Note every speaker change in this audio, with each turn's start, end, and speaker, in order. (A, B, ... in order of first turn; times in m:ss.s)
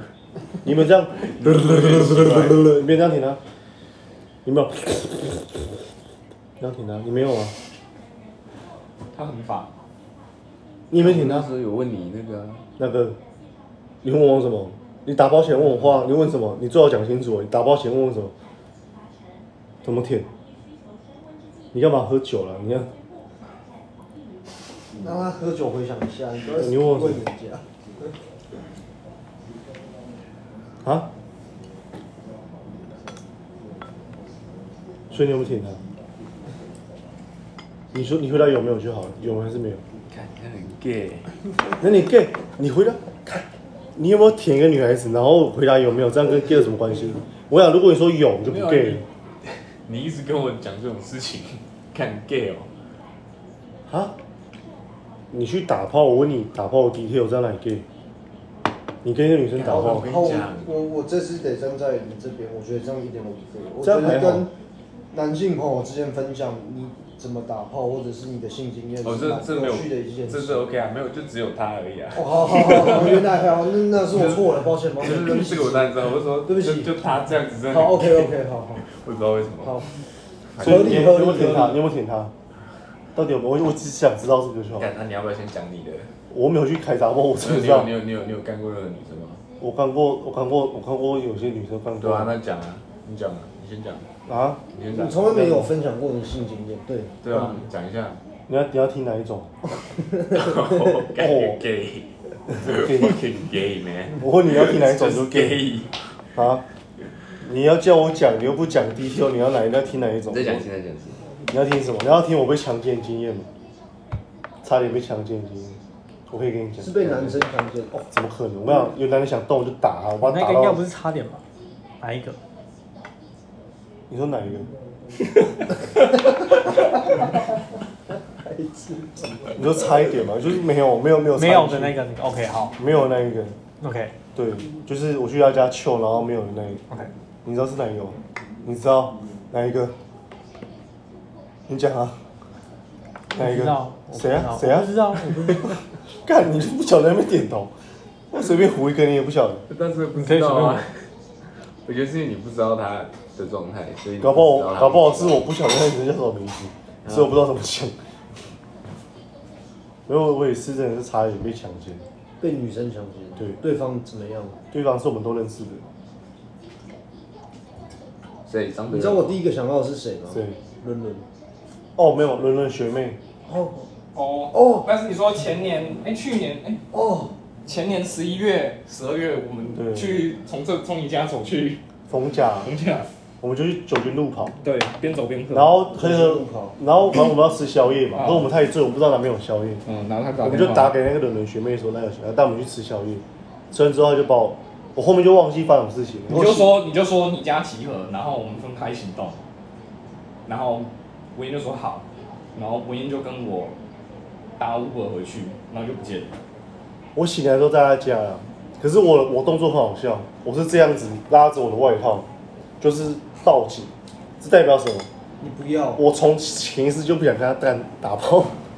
0:00.6-0:03.4 A
0:01.3-0:02.7 B
0:04.4-0:05.6 A
0:06.6-0:07.5 A
0:09.1-0:09.7 C
0:10.9-0:11.5 A
0:10.9-0:12.6 B
0:12.8-0:13.2 A
0:14.0-0:18.3 A
0:19.8-0:20.3 A
0:21.7-0:22.9 A
0:25.0-0:28.1 D
0:26.6-0:27.2 A
0:30.8-0:31.1 A
0:35.1-0:35.8 A
0:37.9-0:39.8 A
0:40.1-0:41.3 B
0:41.8-0:49.0 A
0:48.4-0:49.1 B
0:49.8-0:52.7 B
0:53.9-0:54.1 A
0:55.3-0:57.8 A
0:59.0-1:00.1 A
0:59.6-1:00.7 B
0:59.6-1:04.5 D
1:03.8-1:04.5 A
1:05.1-1:10.6 D
1:09.0-1:13.2 B
1:12.1-1:16.9 D
1:14.1-1:14.4 B
1:15.0-1:19.9 B
1:17.7-1:18.8 D
1:20.5-1:21.2 B
1:20.6-1:21.8 D
1:20.6-1:22.3 A
1:23.1-1:24.9 A
1:24.8-1:26.1 B
1:26.3-1:27.9 A
1:27.4-1:29.4 B
1:29.6-1:32.3 A
1:32.0-1:34.1 B
1:34.3-1:34.6 A
1:34.7-1:35.7 B
1:34.9-1:37.6 D
1:37.2-1:38.2 B
1:38.5-1:39.5 A
1:40.3-1:46.0 B
1:41.1-1:41.6 A
1:42.5-1:43.2 A
1:44.2-1:45.7 A
1:46.3-1:46.6 A
1:47.4-1:50.6 A
1:50.3-1:51.2 B
1:51.5-1:53.5 A
1:54.6-1:57.5 A
1:56.8-1:58.1 D
1:58.1-2:00.8 A
2:00.2-2:01.4 E
2:02.0-2:02.4 E
2:04.1-2:04.7 A
2:08.5-2:09.5 D
2:09.5-2:12.0 A
2:11.3-2:12.8 E
2:12.8-2:13.6 A
2:13.8-2:14.1 E
2:14.3-2:16.8 A
2:17.4-2:20.0 A
2:21.7-2:22.2 A
2:23.3-2:25.8 E
2:23.3-2:25.7 A
2:26.2-2:27.7 A
2:28.3-2:29.6 A
2:29.7-2:31.1 B
2:30.1-2:30.8 E
2:31.8-2:35.4 B
2:34.2-2:37.9 A
2:37.0-2:37.3 B
2:40.1-2:42.0 A
2:42.4-2:44.6 D
2:44.7-2:45.8 A
2:48.4-2:49.4 B
2:48.9-2:51.2 D
2:50.3-2:50.6 A
2:52.0-2:53.2 A
2:53.4-2:53.9 D
2:54.1-2:56.8 C
2:54.5-2:54.9 D
2:56.9-2:57.3 D
2:57.6-3:01.8 C
2:59.7-3:00.3 A
3:02.1-3:02.7 A
3:02.6-3:03.1 C
3:03.4-3:04.6 A
3:04.6-3:05.8 C
3:05.5-3:09.8 A
3:05.9-3:06.8 D
3:08.1-3:08.5 C
3:09.8-3:10.9 C
3:10.4-3:16.7 A
3:16.3-3:19.4 C
3:20.4-3:23.7 C
3:24.6-3:26.4 C
3:27.1-3:32.3 A
3:32.8-3:35.1 A
3:35.4-3:36.0 D
3:36.0-3:38.6 A